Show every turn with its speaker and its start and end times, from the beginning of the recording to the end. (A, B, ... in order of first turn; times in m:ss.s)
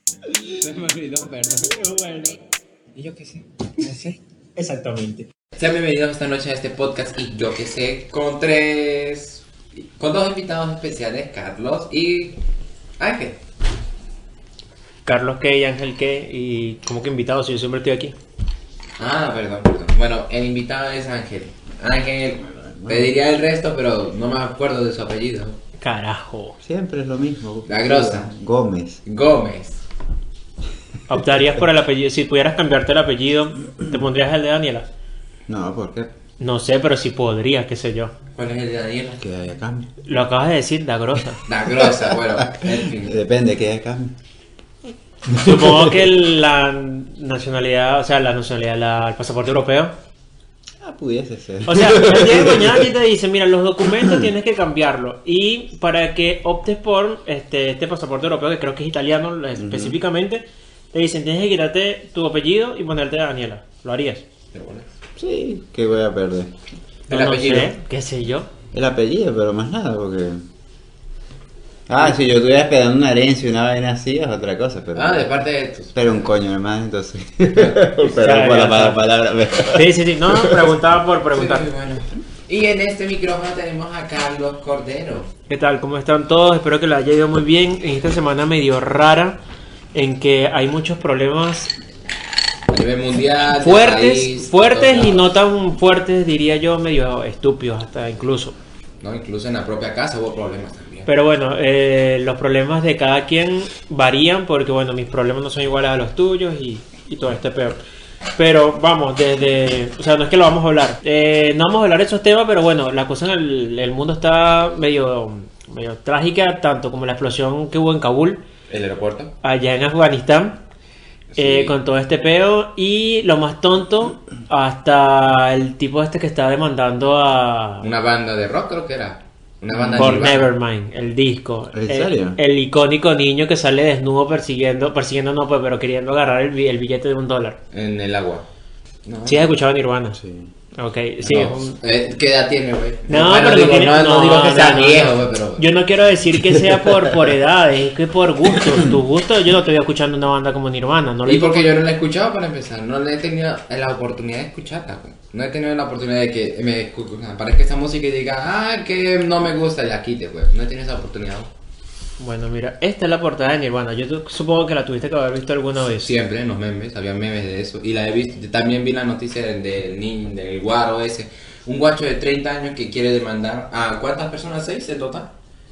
0:00.4-0:01.9 A
0:01.7-0:02.4 B
0:03.0-0:04.1 A
0:04.6-0:05.2 B
0:05.6-0:09.4 C
0:10.0-0:12.4 C
0:13.0-0:13.4 C
0:15.1-0:18.2 B
0:19.0-0:25.6 C
0:22.6-0:23.1 A
0:25.8-0:26.6 B
0:26.6-0:29.0 A
0:27.7-0:28.3 C
0:29.0-0:29.8 C
0:31.1-0:34.9 B
0:35.5-0:36.1 A
0:36.4-0:38.1 B
0:38.4-0:39.2 C
0:39.2-0:39.9 A
0:40.0-0:41.4 B
0:41.5-0:43.2 C
0:41.8-0:44.2 A
0:45.3-0:46.0 A
0:45.3-0:49.9 B
0:50.8-0:52.9 A
0:51.7-1:04.2 B
0:59.6-1:00.0 A
1:04.5-1:04.9 C
1:05.2-1:06.6 A
1:07.1-1:07.7 C
1:07.1-1:08.5 B
1:08.7-1:10.4 A
1:11.9-1:15.3 A
1:15.0-1:16.0 C
1:15.9-1:20.7 A
1:17.6-1:18.0 C
1:18.2-1:19.0 B
1:19.7-1:21.7 B
1:21.3-1:25.3 C
1:25.5-1:29.4 B
1:29.9-1:31.8 B
1:32.7-1:35.2 C
1:33.6-1:38.6 B
1:39.0-1:41.1 C
1:41.1-1:47.8 B
1:48.4-1:58.4 B
1:58.7-1:59.3 C
1:59.4-2:00.6 B
2:01.3-2:01.8 A
2:01.4-2:07.9 B
2:07.8-2:10.5 C
2:09.7-2:10.2 A
2:10.0-2:17.6 B
2:11.7-2:12.4 A
2:17.7-2:18.4 C
2:19.1-2:19.5 C
2:19.3-2:20.2 B
2:20.2-2:20.5 A
2:20.8-2:21.8 B
2:21.2-2:25.7 C
2:23.1-2:31.7 B
2:26.5-2:27.1 A
2:28.6-2:28.9 A
2:31.3-2:41.5 C
2:42.2-2:46.1 B
2:46.0-2:55.3 C